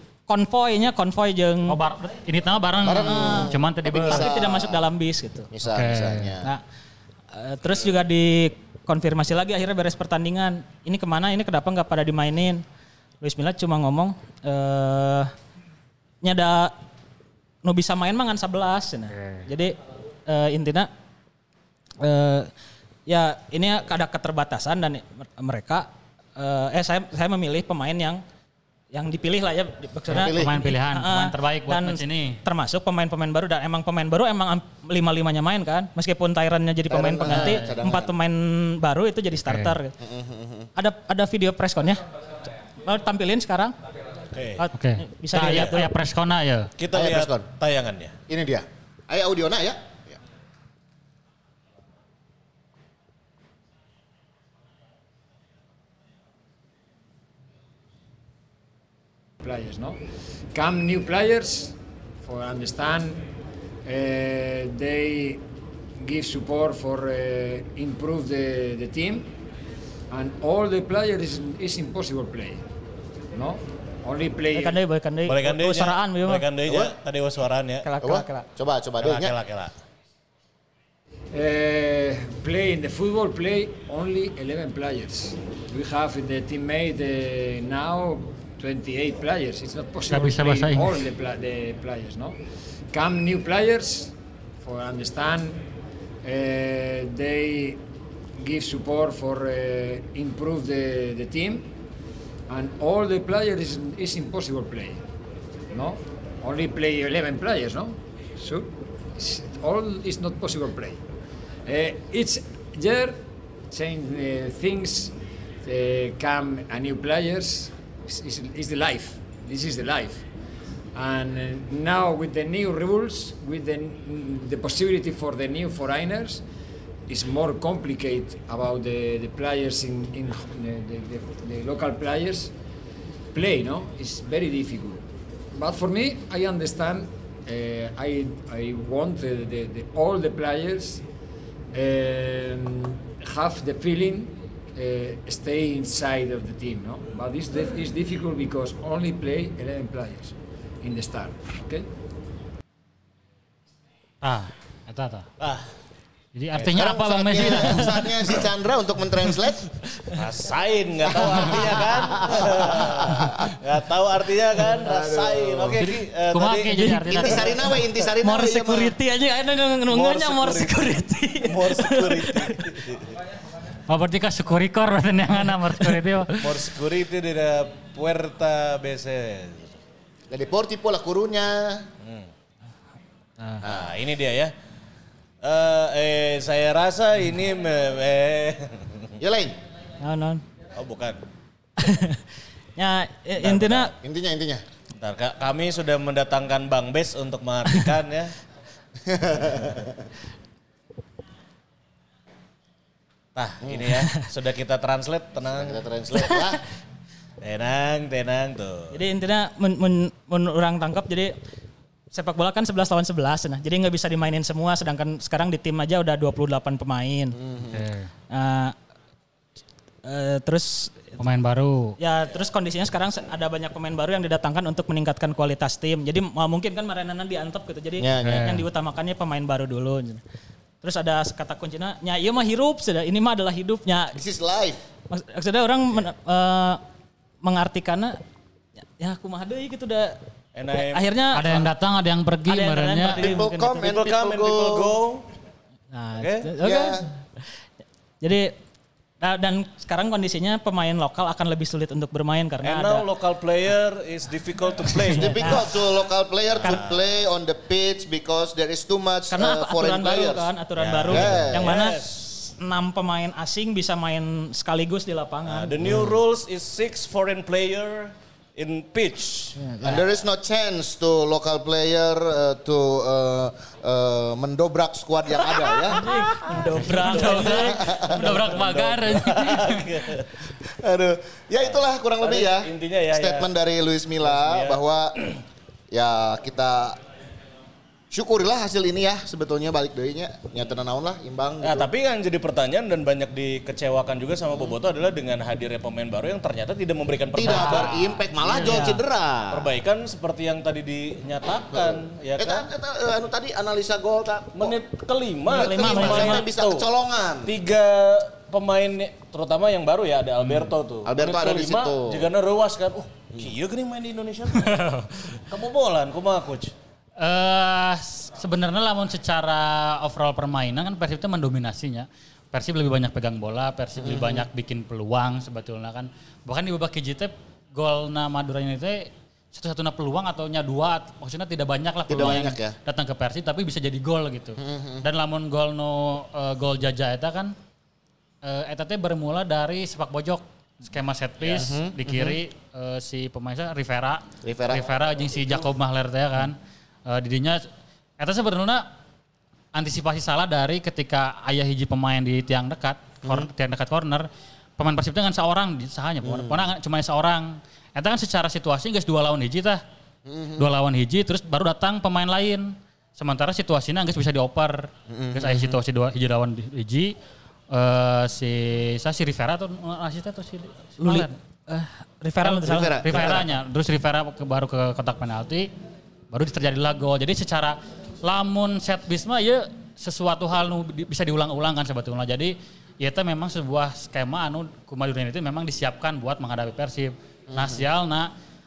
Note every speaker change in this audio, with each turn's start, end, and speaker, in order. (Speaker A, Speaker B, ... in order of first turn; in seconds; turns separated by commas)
Speaker A: 0.3-1.8, Speaker B: 1.7-4.3, Speaker C: 2.8-4.8, Speaker A: 3.0-5.5, Speaker C: 5.5-6.5, Speaker B: 5.6-6.3, Speaker A: 7.3-12.6, Speaker A: 13.2-15.3, Speaker A: 16.2-16.7, Speaker A: 17.6-19.8, Speaker B: 19.1-19.4, Speaker A: 20.3-20.9, Speaker A: 22.0-22.5, Speaker A: 23.1-28.2, Speaker A: 28.9-39.9, Speaker C: 30.1-30.6, Speaker B: 30.1-32.4, Speaker C: 36.9-38.1, Speaker B: 37.2-37.8, Speaker B: 39.5-39.7, Speaker C: 40.0-40.7, Speaker A: 40.8-42.0, Speaker A: 42.8-43.8, Speaker D: 44.3-44.6, Speaker A: 44.6-45.9, Speaker B: 44.7-46.7, Speaker D: 45.4-45.8, Speaker D: 46.8-48.1, Speaker C: 46.9-47.5, Speaker C: 48.3-50.2, Speaker E: 59.4-60.0, Speaker E: 60.5-63.3, Speaker E: 63.8-65.4, Speaker E: 66.0-69.3, Speaker E: 70.1-72.6, Speaker E: 73.3-74.8, Speaker A: 74.5-76.9, Speaker D: 75.2-77.8, Speaker A: 77.8-78.5, Speaker C: 78.0-79.3, Speaker D: 79.0-79.7, Speaker E: 81.3-92.4, Speaker B: 90.1-91.0, Speaker E: 92.9-95.6, Speaker E: 96.2-97.8, Speaker E: 98.3-101.7, Speaker E: 102.5-105.0, Speaker E: 105.7-111.0, Speaker E: 111.7-120.3, Speaker E: 120.9-126.4, Speaker E: 127.1-132.5, Speaker E: 133.3-141.0, Speaker E: 141.7-151.9, Speaker B: 154.2-155.3, Speaker D: 155.4-155.7, Speaker B: 156.3-158.4, Speaker C: 156.6-159.7, Speaker D: 160.1-167.4, Speaker C: 161.1-163.5, Speaker C: 164.7-165.8, Speaker B: 165.8-167.6, Speaker C: 167.0-168.9, Speaker A: 168.2-172.6, Speaker D: 169.9-170.8, Speaker D: 171.4-173.1, Speaker B: 173.9-176.7, Speaker D: 176.4-179.7, Speaker C: 180.3-181.9, Speaker D: 182.0-182.3, Speaker D: 183.6-184.5, Speaker C: 183.6-183.9, Speaker D: 185.4-189.1, Speaker C: 189.2-189.6, Speaker A: 190.0-190.4, Speaker D: 190.8-191.2, Speaker A: 191.8-192.2, Speaker A: 192.8-193.9, Speaker D: 193.4-193.9, Speaker C: 193.9-194.6, Speaker D: 195.0-198.3, Speaker C: 199.1-200.0, Speaker D: 203.3-205.8, Speaker C: 203.6-203.9, Speaker C: 205.5-206.6, Speaker D: 207.4-208.9, Speaker A: 208.9-211.3, Speaker A: 212.1-217.4, Speaker C: 217.3-217.9, Speaker B: 217.7-218.1, Speaker A: 218.3-218.7, Speaker A: 220.1-221.2, Speaker B: 221.2-221.9, Speaker A: 222.0-230.2, Speaker C: 228.0-228.6, Speaker B: 228.2-228.5, Speaker A: 230.8-234.2, Speaker C: 234.1-234.8, Speaker A: 235.1-236.8, Speaker A: 237.4-238.2, Speaker A: 239.0-240.2, Speaker D: 240.5-241.1, Speaker A: 240.8-241.6, Speaker B: 241.3-243.3, Speaker A: 242.4-243.8, Speaker C: 243.0-245.0, Speaker D: 243.8-245.2, Speaker A: 245.9-247.1, Speaker D: 246.2-246.5, Speaker C: 246.6-247.0, Speaker A: 248.2-248.5, Speaker A: 249.2-253.1, Speaker D: 252.6-255.6, Speaker C: 254.9-260.5, Speaker A: 255.4-255.7, Speaker D: 256.5-257.0, Speaker A: 259.3-265.7, Speaker D: 260.8-262.2, Speaker C: 261.1-261.7, Speaker D: 265.5-269.5, Speaker A: 269.6-270.0, Speaker C: 269.8-276.1, Speaker A: 275.9-277.7, Speaker D: 276.5-280.3, Speaker B: 276.5-280.0, Speaker C: 277.4-278.5, Speaker C: 280.6-285.1, Speaker D: 281.6-283.5, Speaker D: 284.2-285.3, Speaker C: 285.9-287.0, Speaker C: 288.1-291.9, Speaker D: 291.6-298.8, Speaker C: 297.3-299.7, Speaker B: 297.4-298.0, Speaker A: 298.5-299.0, Speaker D: 299.5-302.7, Speaker C: 301.7-304.8, Speaker D: 304.5-306.9, Speaker C: 305.4-307.5, Speaker A: 305.5-306.4, Speaker D: 307.4-314.8, Speaker C: 311.0-312.3, Speaker B: 314.6-315.4, Speaker D: 315.4-316.7, Speaker B: 317.2-337.5, Speaker C: 324.0-324.5, Speaker C: 332.1-332.8, Speaker C: 334.6-335.1, Speaker B: 338.4-347.6, Speaker C: 341.4-342.4, Speaker C: 344.4-344.9, Speaker B: 348.2-348.9, Speaker B: 349.7-354.3, Speaker C: 353.2-353.5, Speaker B: 354.8-359.8, Speaker C: 356.2-356.7, Speaker C: 360.2-360.7, Speaker B: 360.6-367.1, Speaker C: 365.1-365.8, Speaker B: 367.7-371.3, Speaker A: 371.0-373.1, Speaker C: 372.4-373.5, Speaker B: 373.0-375.7, Speaker B: 376.3-388.3, Speaker C: 387.5-387.9